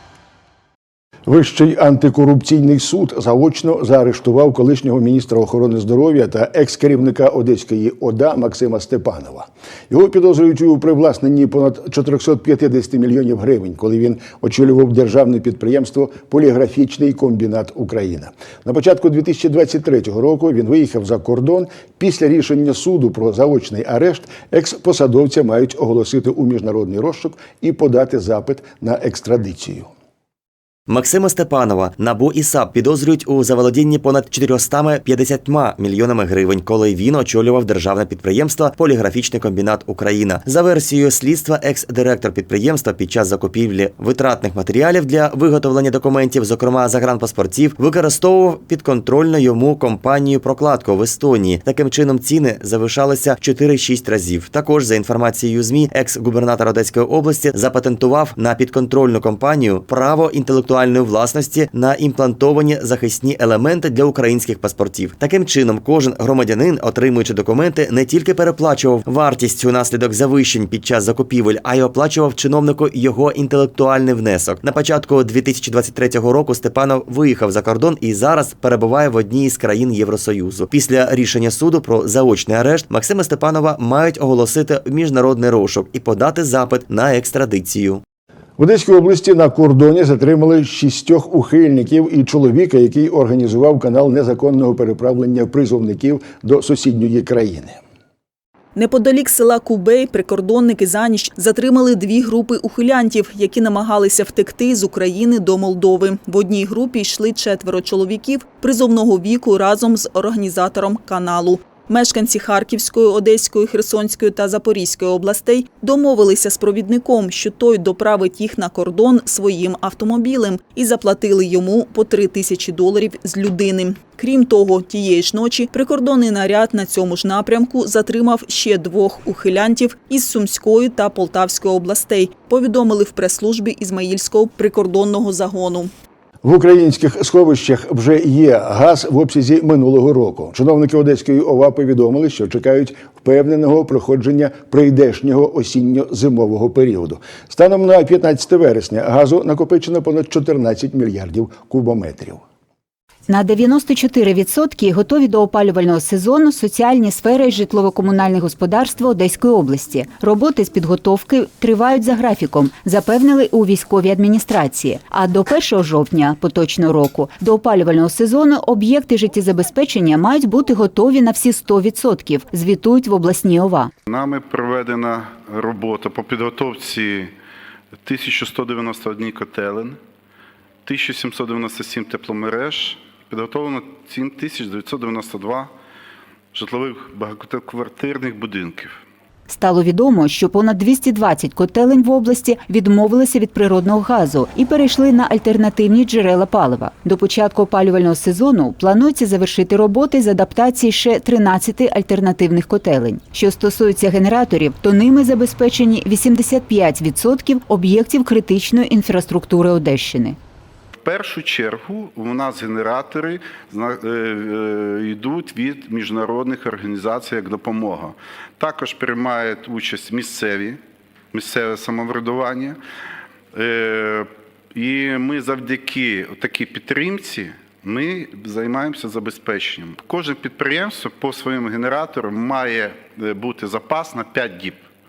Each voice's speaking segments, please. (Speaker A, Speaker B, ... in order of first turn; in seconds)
Speaker A: 1.3-29.9, 88.6-97.8, 136.4-152.4
Speaker B: 30.9-88.0
Speaker C: 98.8-135.9
Speaker D: 153.3-173.9, 189.5-210.4
Speaker E: 174.1-177.3, 178.0-180.0, 180.9-185.7, 186.5-189.0, 211.0-220.8, 221.3-222.8, 223.5-234.8